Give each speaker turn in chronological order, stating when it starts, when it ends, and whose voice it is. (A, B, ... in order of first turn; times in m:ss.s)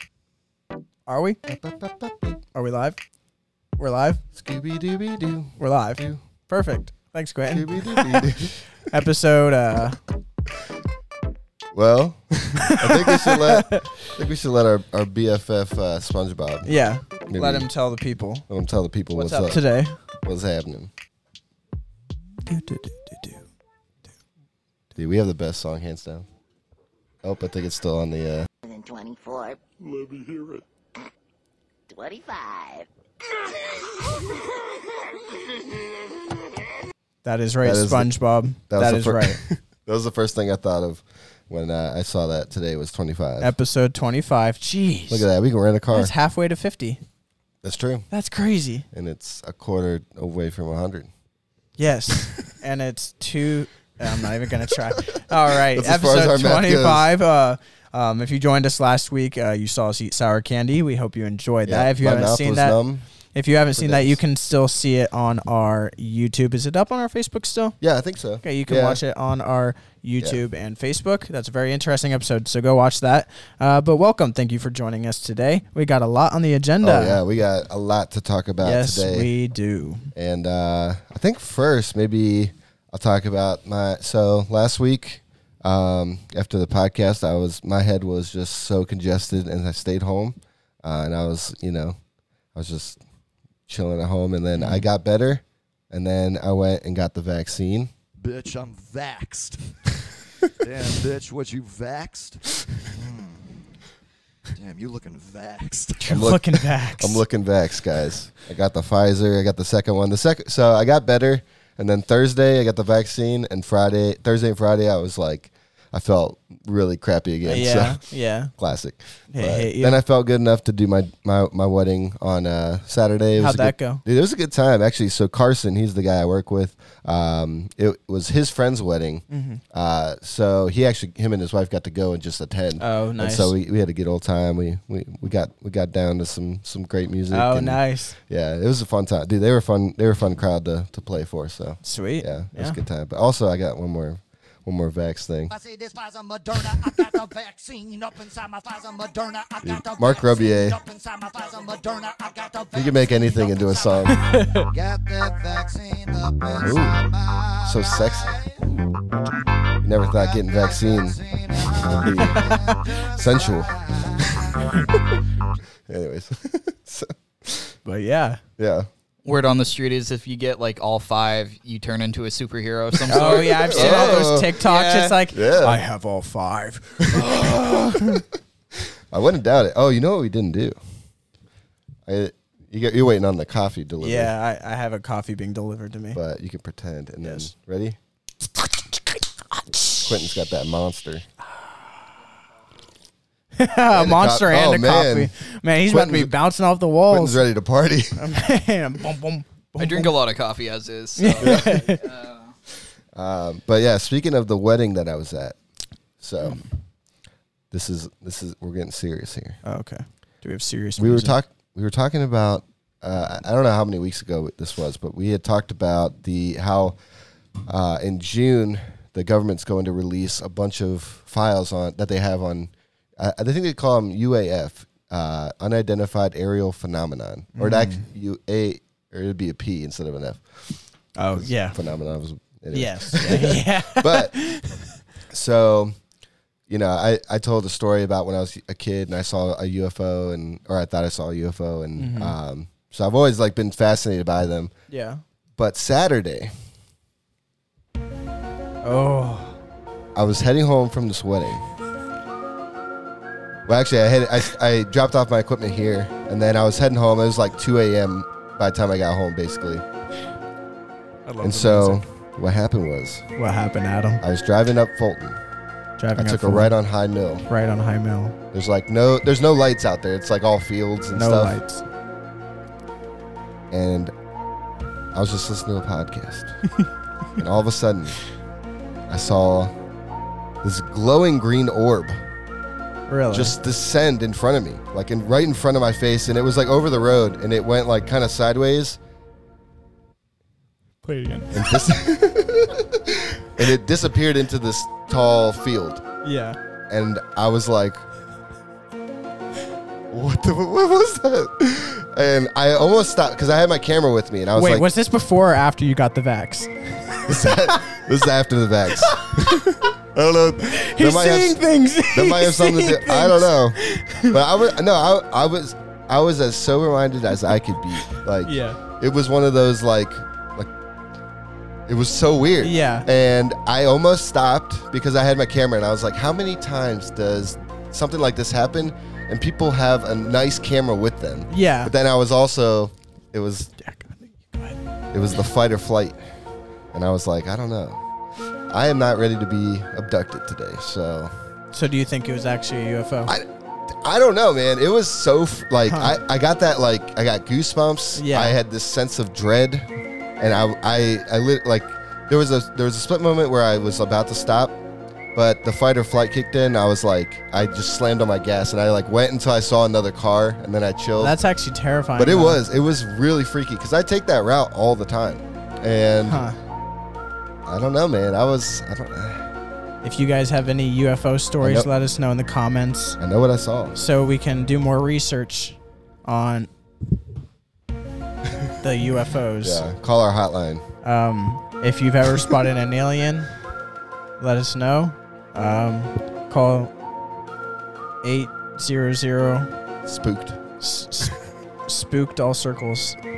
0:01.1-0:01.4 A
0:01.4-0:02.4 B
0:02.5-0:03.0 A
0:03.8-0:04.2 A
0:04.3-0:06.2 B
0:05.6-0:10.0 A
0:07.5-0:08.6 B
0:11.7-0:16.7 B
0:12.7-0:13.9 A
0:16.6-0:18.4 A
0:17.3-0:17.7 B
0:18.5-0:19.6 B
0:19.1-0:20.0 A
0:20.2-0:20.9 B
0:22.4-0:23.4 A
0:24.9-0:26.3 B
0:27.2-0:28.5 B
0:28.6-0:29.6 C
0:31.9-0:32.9 C
0:37.2-0:39.4 A
0:37.6-0:38.1 B
0:38.7-0:43.5 B
0:43.4-0:45.3 A
0:45.1-0:46.1 B
0:45.9-0:47.0 A
0:47.6-0:48.1 B
0:48.1-0:48.8 A
0:48.9-0:51.1 B
0:51.8-1:02.8 A
0:55.7-0:57.1 B
1:01.6-1:03.0 B
1:03.3-1:07.8 A
1:03.7-1:04.2 B
1:07.8-1:09.0 B
1:08.4-1:17.2 A
1:16.8-1:19.3 B
1:18.6-1:20.1 A
1:20.1-1:32.0 B
1:32.5-1:33.0 B
1:33.7-1:37.9 B
1:34.6-1:34.9 A
1:38.2-1:40.0 D
1:40.5-1:43.7 D
1:44.5-1:46.2 D
1:46.0-1:47.2 A
1:46.1-2:25.5 B
1:57.4-1:58.5 A
1:59.3-2:00.0 A
2:03.4-2:04.0 A
2:09.3-2:09.6 A
2:12.8-2:13.5 A
2:17.3-2:18.2 A
2:21.8-2:22.8 A
2:25.5-2:38.5 E
2:29.6-2:30.8 B
2:32.7-2:34.2 B
2:34.1-2:34.7 A
2:36.6-2:37.0 B
2:37.6-2:38.4 B
2:39.8-2:41.2 B
2:40.1-2:44.3 E
2:41.8-2:42.5 B
2:42.2-2:42.8 A
2:43.2-2:43.8 B
2:45.8-2:47.7 B
2:47.8-2:48.4 A
2:48.6-2:48.9 B
2:49.2-2:55.2 F
2:53.1-2:58.2 A
2:53.1-2:54.6 B
2:55.3-2:55.8 B
2:57.0-2:58.2 B
2:59.1-3:00.8 B
3:02.0-3:04.3 B
3:04.0-3:06.2 A
3:06.1-3:08.0 B
3:07.2-3:07.5 A
3:09.0-3:10.1 A
3:10.0-3:11.2 B
3:11.4-3:11.9 A
3:13.5-3:17.4 A
3:13.9-3:15.3 B
3:15.8-3:16.3 B
3:17.1-3:18.2 B
3:18.2-3:20.1 A
3:19.8-3:22.5 F
3:21.2-3:22.0 A
3:21.4-3:22.0 B
3:23.1-3:25.6 B
3:26.2-3:26.6 B
3:27.7-3:29.6 B
3:29.6-3:31.4 A
3:31.0-3:37.0 B
3:37.6-3:50.8 B
3:47.6-3:48.1 A
3:51.2-3:51.8 A
3:51.3-3:54.3 B
3:52.7-3:54.8 A
3:55.3-3:56.0 B
3:56.7-4:04.7 B
4:02.0-4:02.4 A
4:04.9-4:05.2 A
4:05.6-4:06.5 B
4:08.8-4:09.6 A
4:10.1-4:11.6 B
4:13.6-4:19.8 B
4:21.2-4:22.0 A
4:21.4-4:23.2 B
4:23.4-4:24.2 A
4:24.2-4:25.4 B
4:26.0-4:26.7 A
4:26.1-4:27.4 B
4:27.5-4:28.3 A
4:28.5-4:31.6 B
4:31.1-4:31.8 A
4:33.7-4:34.1 B
4:35.1-4:36.5 B
4:37.4-4:38.2 B
4:39.1-4:39.7 B
4:40.6-4:42.2 B
4:43.1-4:43.6 A
4:43.3-4:49.0 B
4:51.0-4:51.8 A
4:51.5-4:56.0 B
4:56.2-4:56.6 A
4:56.9-4:58.0 B
5:00.1-5:04.9 B
5:04.6-5:07.9 A
5:07.3-5:20.7 B
5:09.0-5:09.9 A
5:10.7-5:14.4 A
5:18.4-5:18.8 A
5:21.9-5:33.7 B
5:22.6-5:23.1 A
5:31.5-5:31.9 A
5:33.8-5:34.8 A
5:35.1-5:36.2 B
5:36.9-5:38.0 B
5:38.7-5:41.3 B
5:41.7-5:43.3 A
5:43.3-5:49.9 B
5:45.9-5:46.2 A
5:48.1-5:48.6 A
5:50.4-5:54.8 B
5:55.3-6:01.4 B
6:01.2-6:02.6 A
6:02.2-6:06.4 B
6:06.3-6:06.6 A
6:07.6-6:09.5 B
6:10.0-6:13.2 A
6:11.6-6:11.9 B
6:13.2-6:14.0 B
6:13.9-6:16.7 A
6:18.8-6:19.9 A
6:19.6-6:20.8 B
6:21.0-6:23.5 A
6:24.4-6:26.9 A
6:28.2-6:29.7 A
6:30.0-6:30.6 B
6:30.8-6:33.2 A